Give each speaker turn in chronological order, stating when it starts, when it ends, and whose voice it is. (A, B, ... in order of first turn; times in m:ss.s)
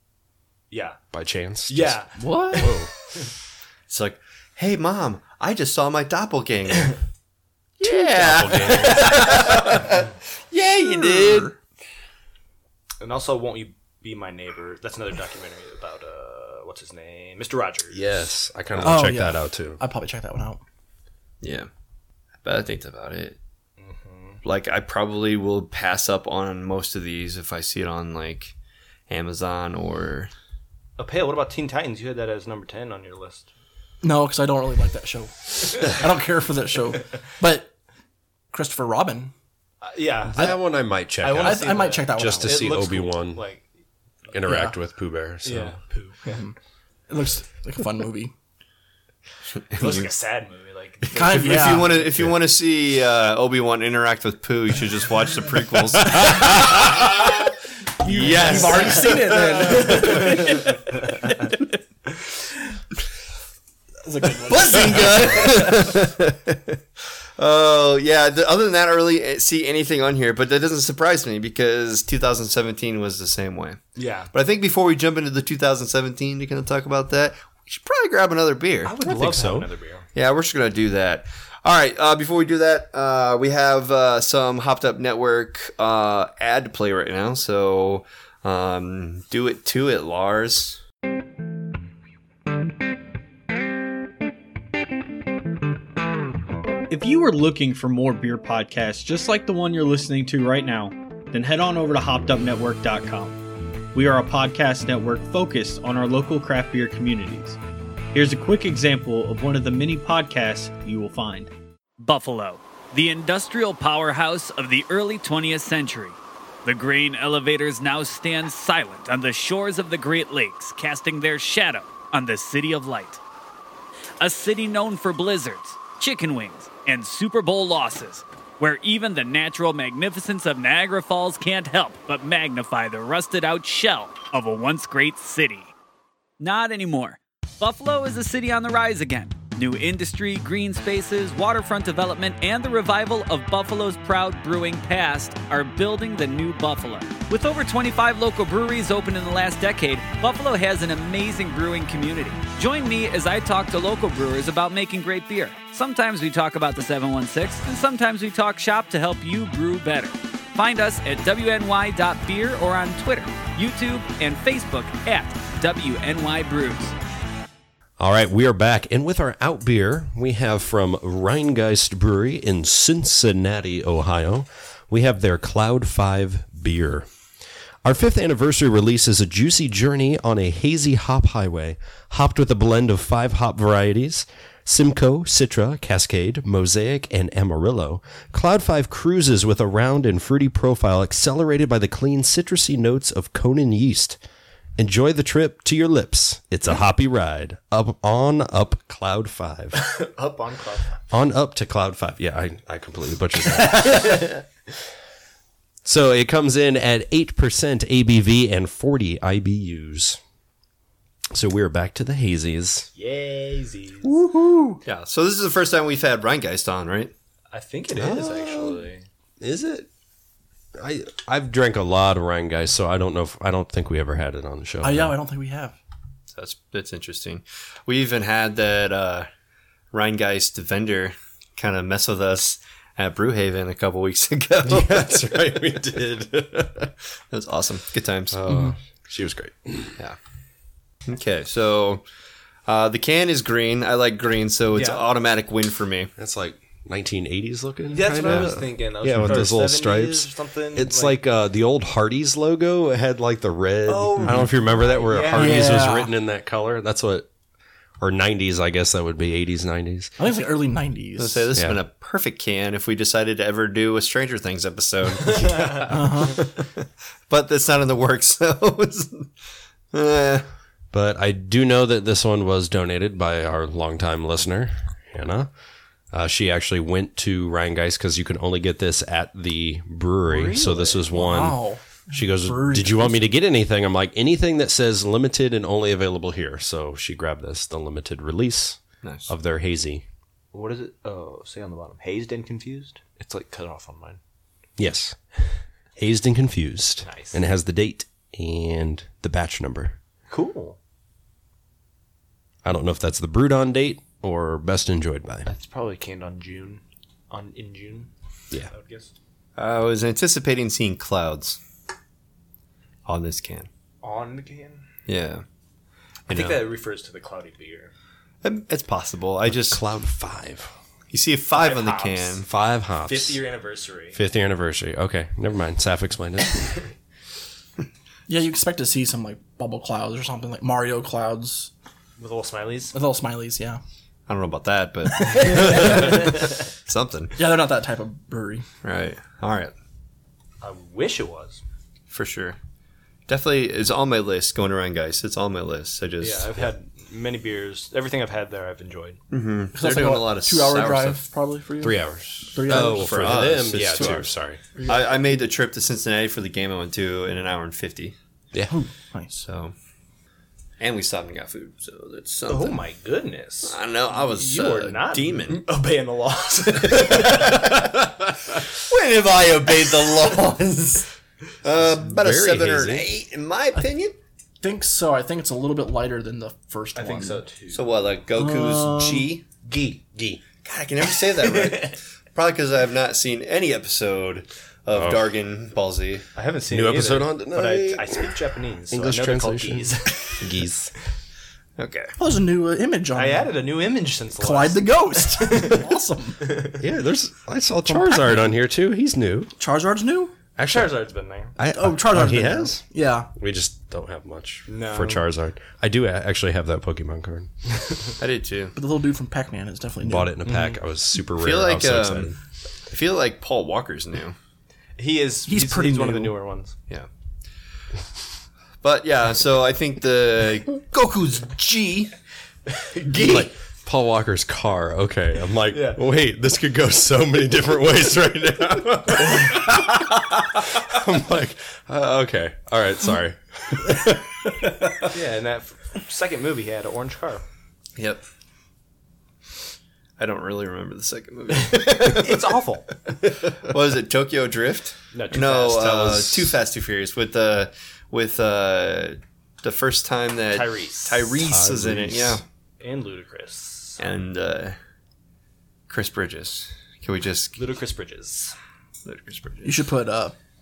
0:00.7-0:01.0 A
0:01.1-0:02.9 B
0:01.7-0:03.3 A
0:02.2-0:02.7 C
0:03.9-0:07.0 D
0:07.8-0:11.6 D
0:07.8-0:09.5 B
0:10.8-0:11.5 C
0:13.0-0:18.0 A
0:17.9-0:19.8 B
0:18.8-0:20.6 C
0:21.4-0:21.7 D
0:22.4-0:23.4 D
0:23.8-0:24.4 A
0:24.4-0:28.5 D
0:29.1-0:30.3 D
0:31.0-0:33.5 A
0:34.0-0:37.7 C
0:38.5-0:39.3 C
0:39.8-0:40.6 A
0:40.2-0:43.5 B
0:41.2-0:43.6 A
0:41.4-0:42.7 C
0:44.3-0:45.8 B
0:44.4-0:44.8 C
0:45.4-0:46.4 A
0:46.3-0:46.5 C
0:47.1-0:48.3 C
0:49.6-0:50.1 D
0:49.8-0:51.9 A
0:51.1-0:57.5 D
0:51.1-0:52.0 C
0:58.0-1:00.7 C
0:58.0-1:00.3 D
0:58.1-1:00.8 A
1:04.0-1:05.7 C
1:04.5-1:06.8 D
1:07.4-1:13.8 D
1:14.0-1:14.3 A
1:14.3-1:18.9 D
1:18.8-1:20.0 A
1:19.0-1:19.7 B
1:20.1-1:30.8 D
1:36.9-1:43.4 E
1:43.9-1:47.6 E
1:48.1-1:51.5 E
1:52.0-2:03.2 F
2:04.2-2:15.7 F
2:16.4-2:47.0 F
2:48.0-2:57.1 B
2:57.8-3:14.2 B
3:14.8-3:19.8 B
3:19.8-3:21.0 A
3:21.1-3:24.3 B
3:23.6-3:24.3 A
3:25.8-3:30.2 B
3:31.3-3:32.9 B
3:32.9-3:34.1 A
3:34.2-3:34.8 C
3:34.8-3:37.1 D
3:37.5-3:39.0 A
3:38.0-3:38.7 B
3:39.4-3:39.9 B
3:40.8-3:45.1 B
3:44.8-3:45.8 C
3:46.3-3:49.3 D
3:49.9-3:55.8 D
3:54.6-3:56.9 B
3:57.3-3:58.4 D
3:58.3-4:00.0 B
3:58.5-3:58.7 C
4:01.1-4:02.0 D
4:02.6-4:06.1 D
4:04.7-4:05.1 A
4:06.2-4:17.3 B
4:07.9-4:11.2 A
4:08.2-4:08.5 D
4:13.8-4:15.8 A
4:15.3-4:16.1 C
4:18.0-4:20.1 B
4:20.2-4:21.5 C
4:21.2-4:29.3 D
4:21.5-4:21.8 B
4:25.4-4:25.8 A
4:25.9-4:26.4 C
4:29.9-4:30.4 D
4:30.9-4:35.5 B
4:36.1-4:50.0 B
4:40.3-4:43.3 C
4:49.0-4:49.3 D
4:50.5-4:54.2 A
4:54.8-5:00.0 B
4:57.0-4:57.4 A
5:00.3-5:00.8 A
5:02.6-5:05.5 B
5:05.4-5:08.1 A
5:08.7-5:09.1 A
5:09.6-5:11.6 D
5:13.0-5:13.7 D
5:14.0-5:14.8 A
5:15.1-5:15.4 D
5:16.3-5:16.6 D
5:16.3-5:17.9 A
5:18.4-5:19.8 D
5:19.4-5:20.7 B
5:21.1-5:22.5 D
5:21.5-5:22.4 A
5:22.4-5:23.4 B
5:23.0-5:24.2 A
5:24.1-5:26.8 B
5:28.3-5:31.7 C
5:32.2-5:32.9 A
5:32.9-5:33.8 C
5:34.3-5:37.3 D
5:35.2-5:36.2 C
5:37.4-5:38.6 C
5:38.8-5:39.7 D
5:40.6-5:41.6 A
5:42.1-5:42.6 D
5:43.3-5:46.6 D
5:46.2-5:49.2 A
5:49.3-5:51.2 D
5:49.7-5:53.5 C
5:51.8-5:54.6 B
5:52.7-5:54.3 D
5:54.8-5:58.1 D
5:58.7-5:59.4 C
5:59.3-5:59.7 D
6:00.8-6:02.8 D
6:02.5-6:07.7 A
6:03.6-6:05.6 D
6:06.9-6:07.9 D
6:08.7-6:11.1 D
6:11.6-6:14.2 D
6:11.8-6:13.1 B
6:14.6-6:17.4 C
6:16.9-6:17.9 A
6:17.7-6:19.4 D
6:18.4-6:19.4 C
6:19.7-6:19.9 A
6:19.7-6:20.4 B
6:20.6-6:26.2 D
6:21.0-6:22.0 A
6:24.9-6:25.3 B
6:26.3-6:30.5 A
6:26.7-6:28.4 B
6:28.9-6:30.9 B
6:31.8-6:32.1 D
6:32.2-6:33.5 C
6:33.1-6:36.8 A
6:34.4-6:36.5 C
6:36.8-6:39.5 B
6:37.8-6:38.6 C
6:39.6-6:40.3 C
6:40.6-6:41.0 B
6:40.6-6:41.5 A
6:41.6-6:47.5 B
6:41.7-6:43.3 C
6:44.7-6:45.2 A
6:48.2-6:48.7 D
6:48.7-6:50.7 C
6:50.0-6:52.4 B
6:51.3-6:52.3 D
6:52.9-6:54.4 D
6:55.0-6:56.8 A
6:55.5-6:56.3 C
6:58.8-7:02.1 D
7:02.8-7:03.4 A
7:03.0-7:03.4 D
7:03.2-7:14.8 B
7:05.7-7:06.0 A
7:15.1-7:17.4 A
7:18.0-7:18.2 D
7:20.2-7:22.5 D
7:21.8-7:22.9 A
7:23.4-7:32.4 D
7:25.1-7:26.2 A
7:25.8-7:26.6 B
7:30.5-7:31.4 A
7:31.4-7:32.4 B
7:32.8-7:34.0 A
7:34.0-7:34.8 D
7:35.9-7:37.6 D
7:37.6-7:38.5 A
7:39.0-7:39.7 D
7:39.6-7:40.3 C